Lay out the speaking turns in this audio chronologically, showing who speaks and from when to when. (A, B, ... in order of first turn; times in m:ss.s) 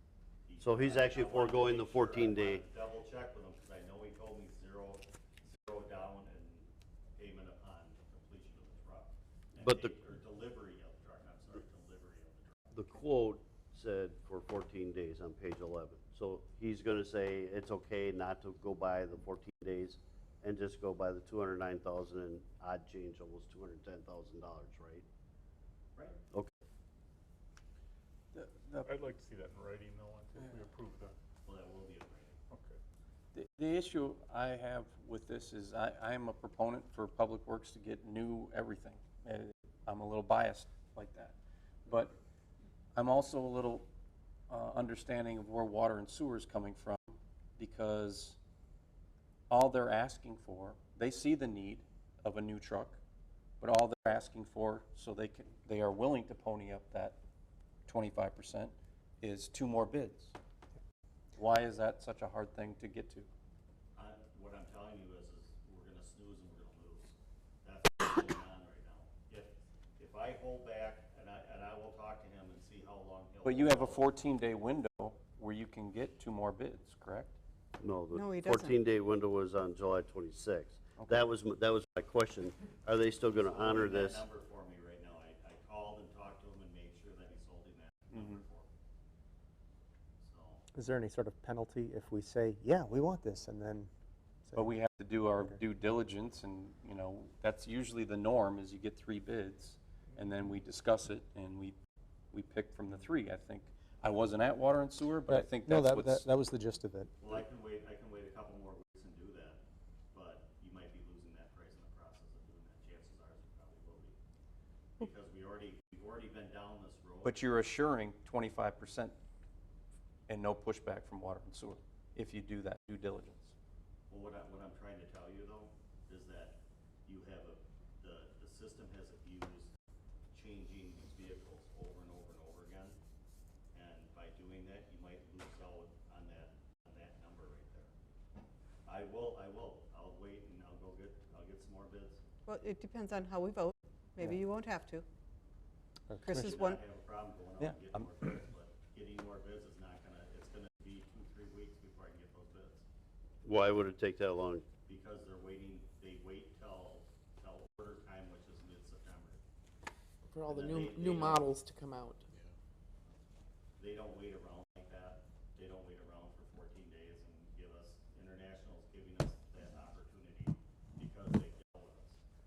0:00.5-0:12.8 A
0:00.6-0:02.6 B
0:09.6-0:09.9 B
0:12.7-0:25.0 B
0:28.3-0:28.9 C
0:28.8-0:31.1 D
0:31.4-0:32.4 A
0:32.5-0:32.8 D
0:33.3-0:42.1 C
0:42.9-0:43.9 C
0:44.5-0:48.4 C
0:49.5-0:53.0 C
0:53.6-0:57.2 C
0:57.9-1:00.3 C
1:01.4-1:03.3 C
1:04.0-1:14.1 A
1:13.4-1:17.4 C
1:17.8-1:24.2 B
1:18.1-1:18.8 E
1:23.4-1:28.7 A
1:28.1-1:28.4 C
1:30.2-1:30.6 A
1:30.7-1:33.9 F
1:34.5-1:34.7 F
1:34.6-1:41.8 C
1:42.3-1:46.3 C
1:45.3-1:47.4 F
1:47.2-1:49.6 A
1:50.1-1:54.2 A
1:55.0-1:57.4 A
1:57.2-1:59.2 C
2:00.3-2:03.5 C
2:04.1-2:09.7 A
2:10.3-2:13.0 A
2:13.7-2:17.9 A
2:18.9-2:22.2 A
2:22.5-2:25.1 E
2:26.1-2:26.6 F
2:26.2-2:26.8 E
2:26.3-2:32.8 A
2:27.6-2:28.0 F
2:33.4-2:34.6 B
2:34.8-2:39.4 A
2:40.3-2:42.3 G
2:40.5-2:41.6 A
2:43.8-2:52.2 A